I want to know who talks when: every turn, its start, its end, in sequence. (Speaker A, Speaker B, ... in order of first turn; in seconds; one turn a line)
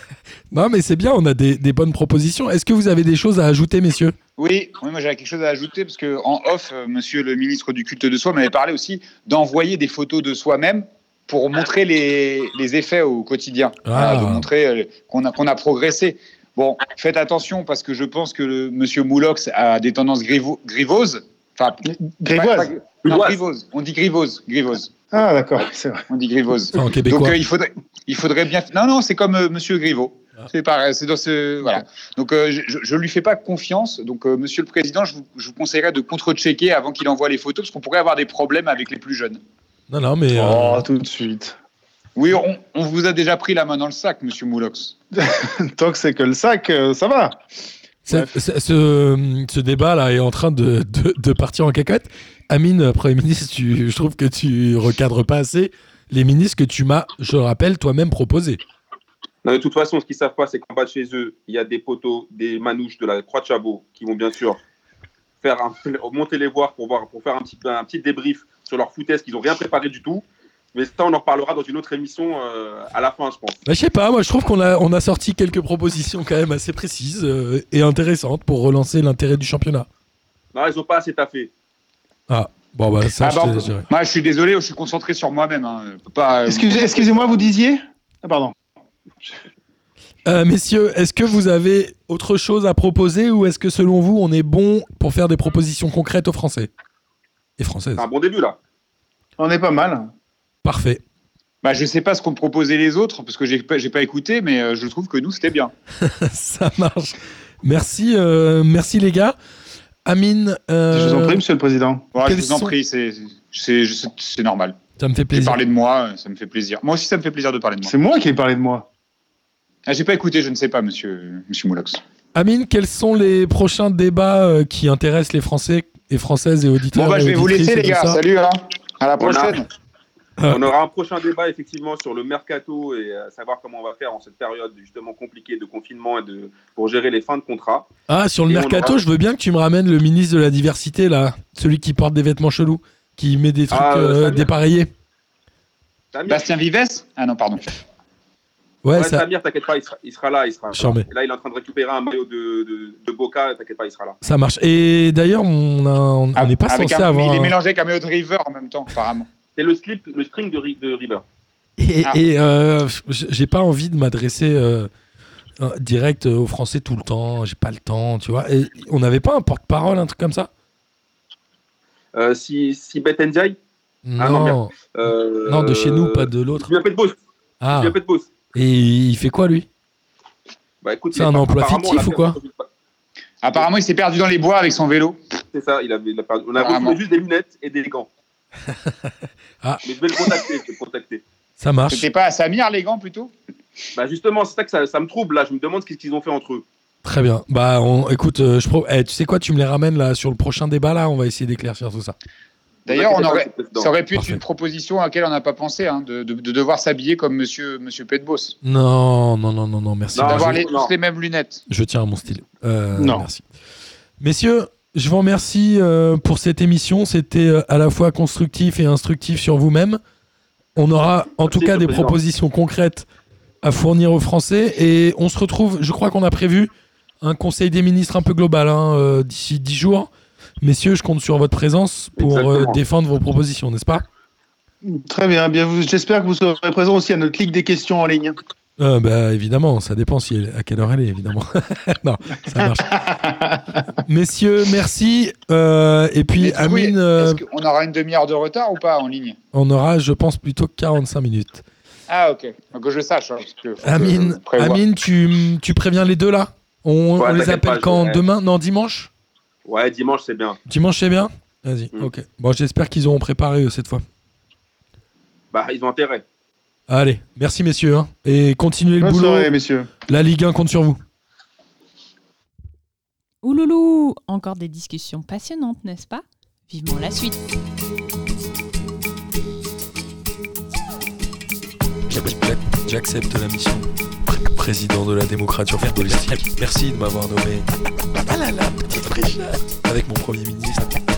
Speaker A: 0.5-4.1
Speaker B: 4.4-24.9
Speaker A: 13.8-14.5
Speaker C: 21.9-22.7
Speaker D: 23.0-23.4
Speaker C: 25.1-26.0
Speaker B: 26.1-39.4
Speaker A: 26.7-27.4
Speaker A: 39.9-40.9
Speaker C: 40.3-41.6
Speaker B: 42.1-45.0
Speaker C: 45.2-47.4
Speaker A: 48.0-58.6
Speaker D: 59.4-64.6
Speaker D: 65.4-73.6
Speaker A: 73.7-79.9
Speaker D: 80.5-81.5
Speaker A: 82.3-83.9
Speaker B: 83.2-87.4
Speaker C: 86.5-88.5
Speaker A: 90.2-96.7
Speaker A: 97.6-98.1
Speaker D: 98.0-98.6
Speaker C: 99.4-100.1
Speaker A: 100.6-101.0
Speaker B: 101.6-105.7
Speaker A: 106.0-109.3
Speaker A: 110.1-111.4
Speaker C: 110.9-112.1
Speaker B: 112.1-114.8
Speaker A: 112.2-112.7
Speaker A: 115.0-115.6
Speaker B: 115.3-117.9
Speaker C: 117.8-118.9
Speaker B: 119.9-122.0
Speaker A: 122.3-128.2
Speaker B: 126.9-129.7
Speaker D: 129.2-129.6
Speaker D: 130.5-137.9
Speaker A: 138.1-144.9
Speaker D: 138.5-139.0
Speaker D: 143.7-144.5
Speaker D: 146.1-146.4
Speaker B: 146.3-147.6
Speaker A: 148.8-149.2
Speaker D: 148.9-154.2
Speaker A: 150.7-151.1
Speaker A: 154.2-157.5
Speaker B: 156.3-159.3
Speaker D: 159.6-161.2
Speaker A: 161.8-164.9
Speaker A: 165.6-170.5
Speaker D: 172.1-173.6
Speaker A: 174.1-174.7
Speaker D: 174.2-177.1
Speaker A: 175.4-176.7
Speaker A: 177.6-177.9
Speaker D: 177.7-178.3
Speaker A: 178.5-179.7
Speaker D: 180.8-182.7
Speaker A: 181.1-182.4
Speaker B: 183.4-185.2
Speaker D: 185.5-188.1
Speaker B: 186.6-187.0
Speaker D: 189.8-191.2
Speaker A: 191.6-192.1
Speaker B: 191.9-193.3
Speaker D: 193.9-196.6
Speaker A: 197.0-202.1
Speaker B: 202.9-208.6
Speaker D: 202.9-203.9
Speaker A: 204.1-204.4
Speaker A: 208.6-210.6
Speaker D: 210.1-210.9
Speaker B: 210.2-211.6
Speaker A: 211.7-213.4
Speaker C: 213.0-213.2
Speaker A: 214.2-220.0
Speaker A: 220.8-223.1
Speaker D: 221.4-222.1
Speaker A: 223.6-230.1
Speaker A: 230.6-234.0
Speaker D: 232.2-232.8
Speaker C: 234.8-238.4
Speaker A: 238.8-243.0
Speaker C: 242.8-243.8
Speaker A: 244.1-247.4
Speaker B: 246.4-249.4
Speaker A: 249.5-251.6
Speaker B: 252.1-254.8
Speaker A: 253.8-259.1
Speaker D: 257.2-258.2
Speaker D: 259.6-260.6
Speaker A: 260.7-264.0
Speaker D: 265.5-266.2
Speaker A: 266.9-269.5
Speaker C: 269.0-269.9
Speaker A: 270.1-271.0
Speaker E: 273.4-277.4
Speaker A: 282.1-287.7
Speaker A: 288.2-290.9